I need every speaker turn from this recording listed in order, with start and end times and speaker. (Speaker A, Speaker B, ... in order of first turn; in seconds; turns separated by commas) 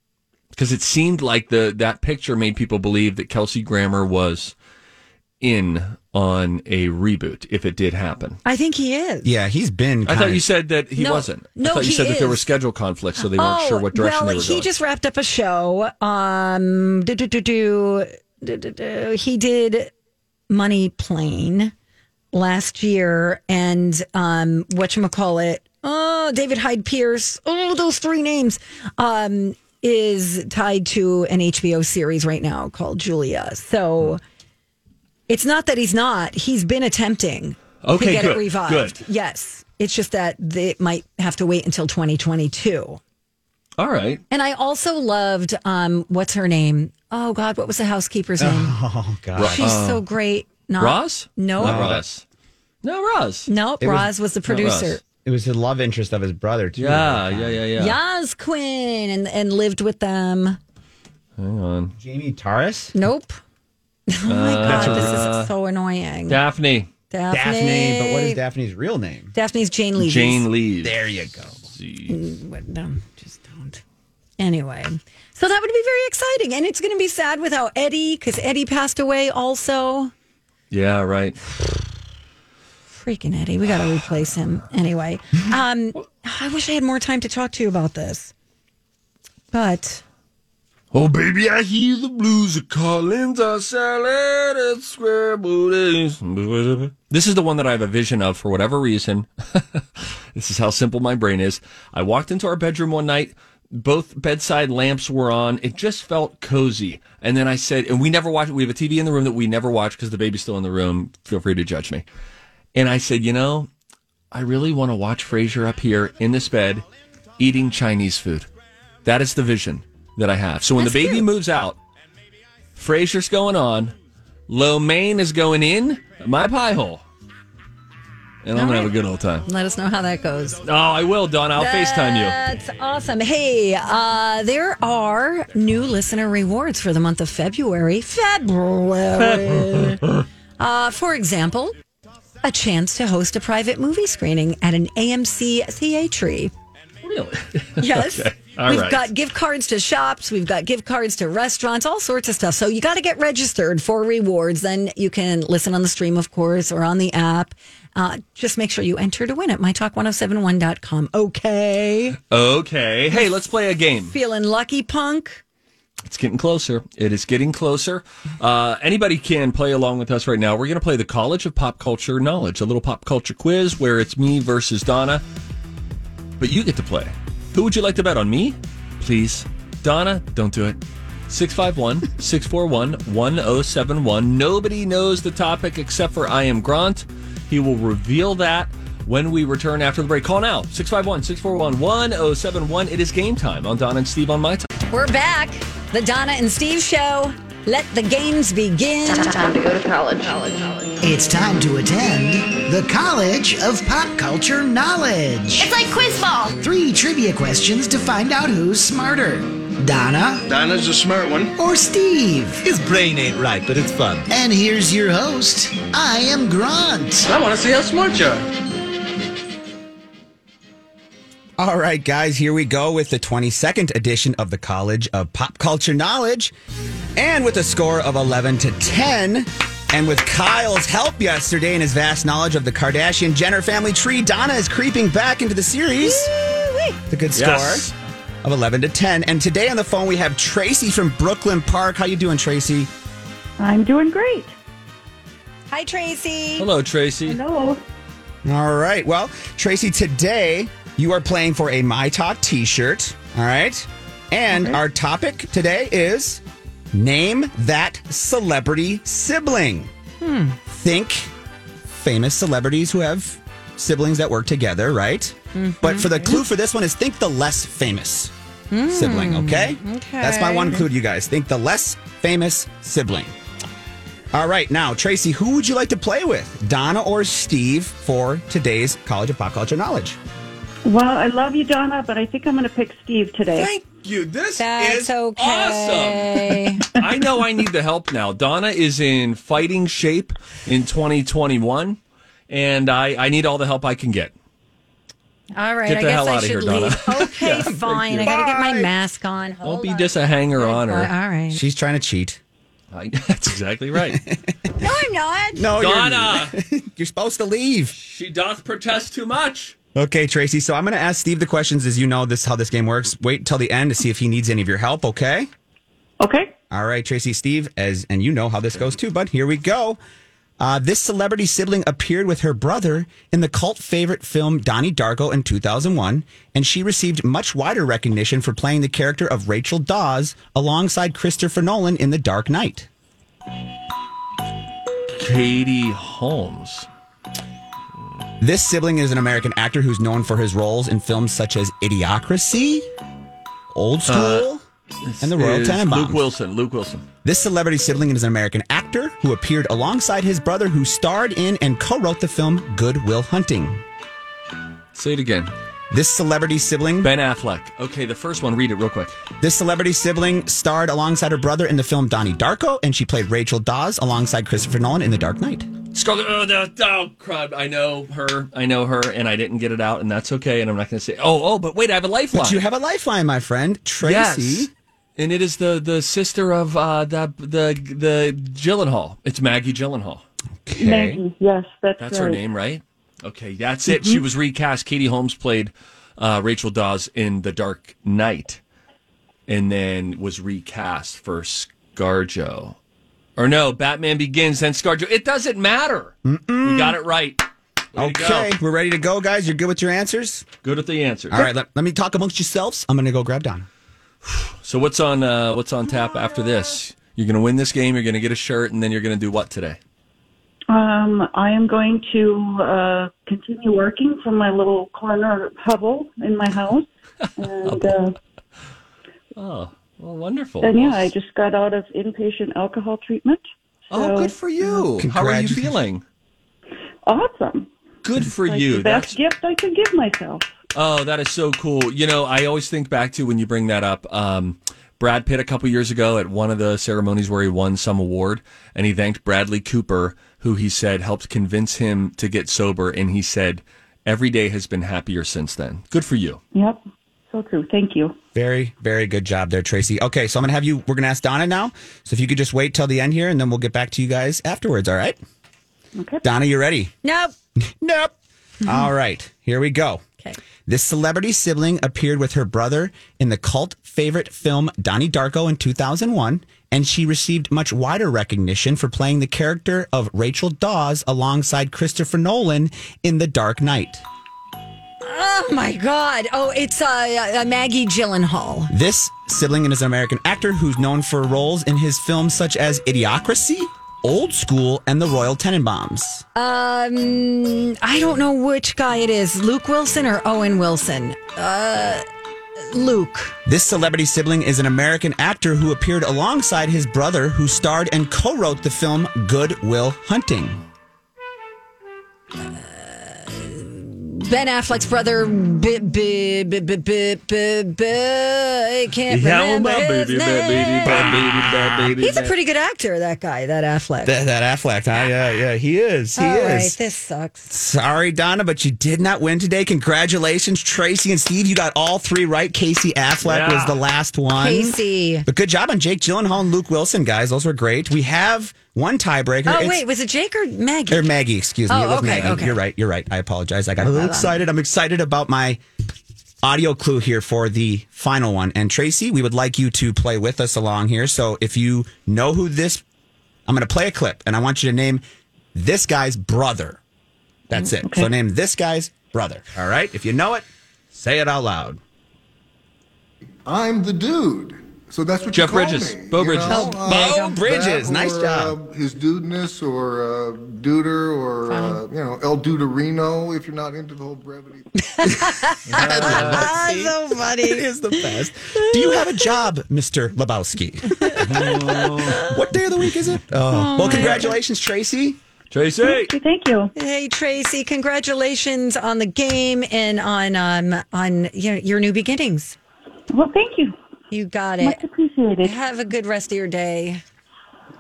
Speaker A: 0.5-4.5, Speaker A: 5.4-8.4, Speaker B: 8.4-9.3, Speaker C: 9.2-10.4, Speaker A: 10.1-14.7, Speaker B: 11.0-12.4, Speaker B: 13.2-19.9, Speaker B: 20.5-21.7, Speaker B: 22.3-34.2, Speaker B: 35.3-43.0, Speaker A: 37.8-39.0, Speaker A: 43.8-44.2, Speaker B: 44.3-48.8, Speaker C: 48.4-49.8, Speaker A: 49.4-50.1, Speaker B: 49.4-51.9, Speaker A: 50.8-52.2, Speaker C: 51.6-52.0, Speaker A: 52.8-53.5, Speaker B: 53.5-55.0, Speaker C: 53.8-54.1, Speaker A: 54.5-55.0, Speaker C: 55.2-57.6, Speaker A: 56.8-58.0, Speaker B: 57.8-60.6, Speaker A: 61.4-61.9, Speaker C: 62.0-62.9, Speaker B: 62.9-63.4, Speaker B: 64.1-66.4, Speaker A: 64.3-65.5, Speaker C: 64.7-65.3, Speaker A: 66.3-66.9, Speaker B: 67.1-68.4, Speaker C: 67.3-69.3, Speaker B: 69.3-70.5, Speaker A: 70.0-71.0, Speaker C: 70.8-71.7, Speaker A: 71.7-72.2, Speaker B: 72.1-73.8, Speaker B: 74.4-80.1, Speaker A: 80.7-81.4, Speaker B: 82.9-88.3, Speaker B: 89.5-90.0, Speaker A: 90.9-112.0, Speaker A: 112.8-113.7, Speaker A: 114.3-116.8, Speaker A: 117.4-118.5, Speaker A: 119.0-121.8, Speaker B: 120.8-121.3, Speaker A: 122.8-123.9, Speaker A: 124.5-127.0, Speaker A: 128.4-129.5, Speaker B: 128.6-128.9, Speaker B: 129.5-130.6, Speaker A: 130.7-132.4, Speaker B: 131.6-140.0, Speaker A: 139.2-140.2, Speaker B: 140.6-141.8, Speaker B: 142.4-146.5, Speaker A: 147.0-149.1, Speaker B: 147.8-162.2, Speaker A: 162.3-164.2, Speaker B: 164.1-165.4, Speaker A: 166.1-175.2, Speaker A: 176.4-194.7, Speaker B: 194.9-199.3, Speaker D: 199.1-201.0, Speaker E: 201.0-205.8, Speaker D: 205.6-206.6, Speaker E: 206.6-210.4, Speaker F: 210.5-211.5, Speaker E: 211.6-212.7, Speaker C: 212.8-214.3, Speaker E: 214.3-217.3, Speaker F: 217.2-218.5, Speaker C: 221.6-226.5, Speaker C: 227.2-236.3, Speaker B: 236.0-237.0, Speaker C: 237.1-237.9, Speaker A: 237.3-237.9, Speaker C: 238.4-242.9, Speaker G: 243.6-244.6, Speaker B: 245.7-246.7, Speaker A: 246.6-247.4, Speaker G: 247.3-247.8, Speaker C: 248.4-256.4, Speaker G: 254.5-254.8, Speaker C: 256.9-259.9, Speaker B: 260.2-260.6, Speaker C: 260.7-261.3, Speaker C: 261.9-268.3, Speaker B: 265.6-266.4, Speaker B: 268.7-270.9, Speaker C: 268.9-273.3, Speaker C: 274.3-280.2, Speaker G: 280.9-283.7, Speaker A: 283.5-292.0, Speaker B: 284.6-286.9, Speaker A: 292.5-294.3, Speaker B: 295.6-301.6, Speaker A: 295.9-298.4, Speaker C: 298.2-298.9, Speaker A: 299.6-301.1, Speaker C: 301.5-302.4, Speaker A: 302.9-304.2, Speaker C: 304.1-304.4, Speaker B: 304.8-305.7, Speaker C: 305.6-307.9, Speaker A: 305.8-306.6, Speaker A: 307.9-309.8, Speaker C: 309.9-315.5, Speaker G: 316.2-316.5, Speaker C: 316.7-320.0, Speaker C: 320.6-332.9, Speaker A: 335.1-336.9, Speaker C: 338.4-342.9, Speaker C: 343.7-344.6, Speaker A: 344.1-344.5, Speaker A: 345.0-347.1, Speaker C: 345.2-346.2, Speaker C: 347.2-353.8, Speaker A: 354.9-355.5, Speaker C: 355.9-357.1, Speaker A: 357.0-359.1, Speaker C: 359.4-365.7, Speaker A: 365.9-372.6, Speaker C: 372.3-374.7, Speaker A: 374.0-380.2, Speaker C: 380.7-381.2, Speaker G: 380.8-382.4, Speaker A: 382.0-388.6, Speaker G: 383.9-384.2, Speaker A: 389.5-392.8, Speaker A: 393.4-398.5, Speaker C: 396.2-397.0, Speaker C: 398.0-400.5, Speaker A: 400.6-401.5, Speaker C: 401.3-403.7, Speaker A: 404.3-409.8, Speaker G: 410.7-418.2, Speaker A: 417.2-417.9, Speaker A: 419.4-421.1, Speaker G: 420.6-424.4, Speaker A: 423.9-426.0, Speaker C: 424.9-425.8, Speaker G: 427.1-427.7, Speaker A: 428.0-429.2, Speaker G: 428.3-430.5, Speaker A: 430.7-446.4, Speaker G: 446.5-448.2, Speaker C: 448.3-455.2, Speaker G: 456.0-456.2, Speaker C: 456.2-456.9, Speaker B: 457.0-457.3, Speaker C: 457.6-460.0, Speaker C: 460.7-474.0, Speaker B: 475.0-478.7, Speaker C: 478.7-486.2, Speaker B: 486.4-492.1, Speaker B: 492.7-493.4, Speaker C: 493.5-500.6, Speaker B: 502.4-511.2, Speaker A: 509.1-512.3, Speaker C: 510.9-511.9, Speaker B: 512.0-514.1, Speaker C: 514.0-516.8, Speaker B: 516.2-517.5, Speaker C: 517.5-529.8, Speaker A: 523.2-523.8, Speaker B: 524.4-525.3, Speaker B: 529.5-531.1, Speaker C: 530.9-535.6, Speaker B: 531.7-532.6, Speaker B: 533.8-534.3, Speaker C: 536.4-542.8, Speaker C: 543.5-545.0, Speaker C: 545.5-546.8, Speaker C: 547.5-551.8, Speaker G: 547.8-548.1, Speaker H: 553.5-564.7, Speaker A: 555.3-557.1, Speaker B: 556.5-556.8, Speaker C: 556.5-558.5, Speaker B: 561.5-561.8, Speaker B: 564.9-569.3, Speaker C: 565.7-575.2, Speaker A: 565.7-566.5, Speaker B: 571.0-572.4, Speaker A: 571.2-572.3, Speaker B: 573.5-574.3, Speaker A: 573.8-574.3, Speaker A: 575.5-576.1, Speaker G: 575.8-576.7, Speaker B: 576.8-582.6, Speaker G: 583.1-583.8, Speaker B: 584.1-584.8, Speaker G: 584.6-585.5, Speaker B: 585.4-587.0